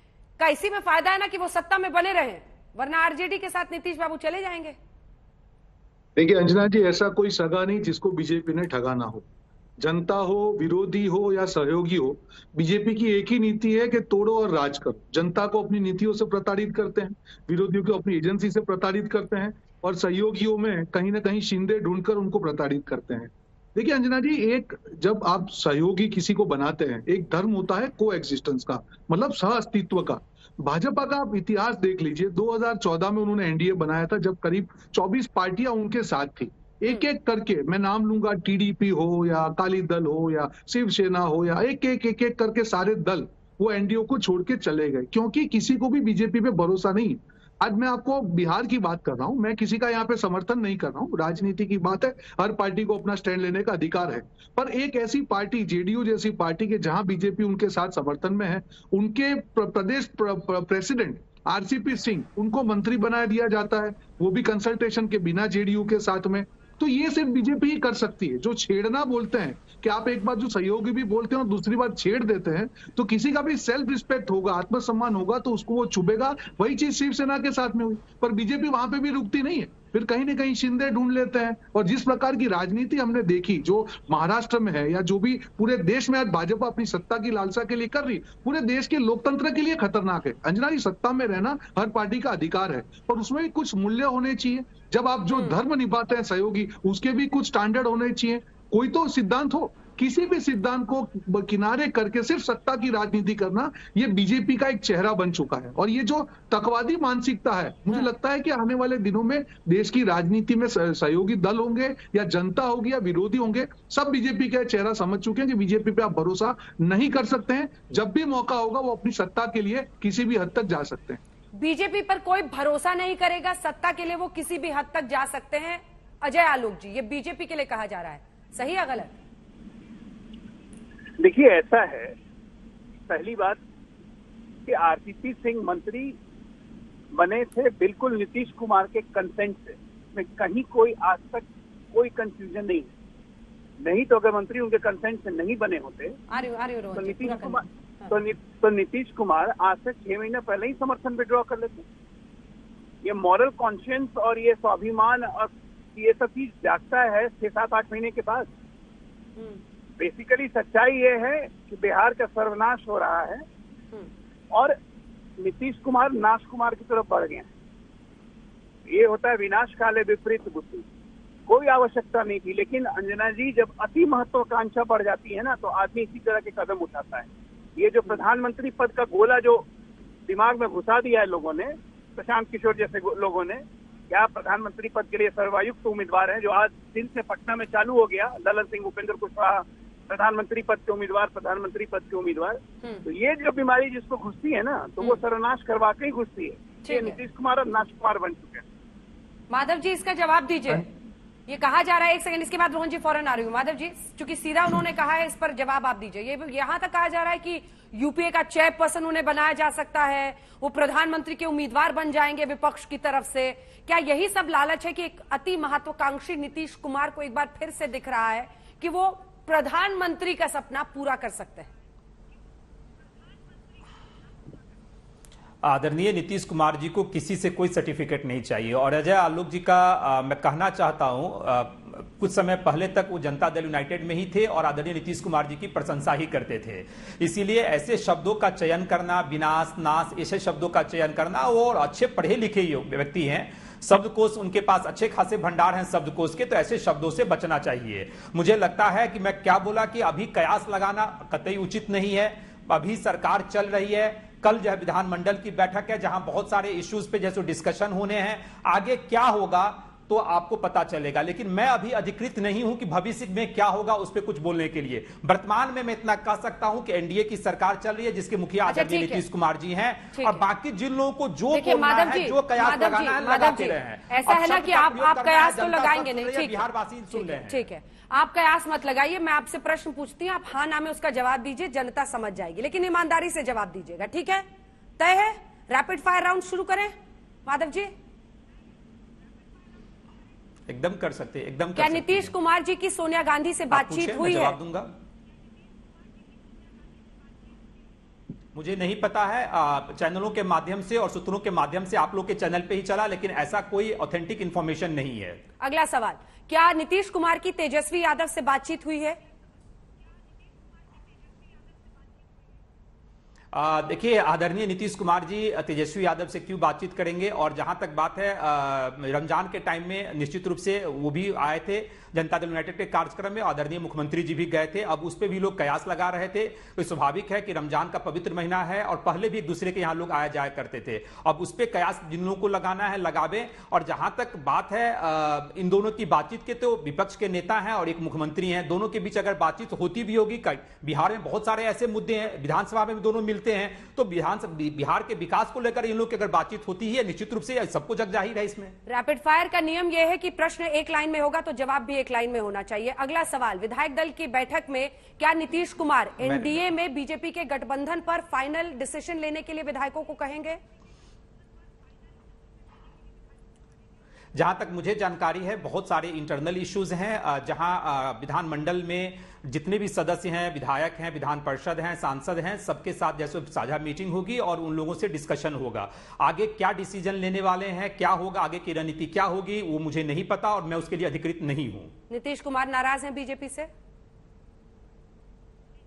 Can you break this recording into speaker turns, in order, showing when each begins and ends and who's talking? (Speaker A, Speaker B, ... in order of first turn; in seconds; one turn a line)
Speaker A: 0.4-4.8
Speaker B: 6.2-9.2
Speaker B: 9.8-121.2
Speaker A: 121.6-129.1
Speaker C: 131.2-132.2
Speaker C: 133.1-133.6
Speaker C: 134.7-136.2
Speaker C: 137.2-142.9
Speaker C: 143.8-146.2
Speaker A: 146.3-148.1
Speaker C: 146.9-151.9
Speaker C: 153.0-158.5
Speaker C: 160.0-163.4
Speaker C: 165.4-167.5
Speaker C: 168.9-170.9
Speaker C: 171.5-179.7
Speaker C: 180.3-198.6
Speaker A: 196.8-197.2
Speaker A: 199.5-200.9
Speaker A: 201.5-221.7
Speaker D: 225.6-277.6
Speaker A: 268.7-269.2
Speaker A: 270.1-270.4
Speaker A: 271.5-284.4
Speaker A: 285.0-286.9
Speaker A: 287.5-287.9
Speaker D: 290.7-292.3
Speaker A: 291.8-294.6
Speaker D: 293.7-294.9
Speaker D: 298.6-305.4
Speaker A: 305.6-309.2
Speaker D: 313.5-348.8
Speaker A: 348.9-360.6
Speaker D: 356.2-356.6
Speaker D: 364.4-381.9
Speaker A: 382.1-383.7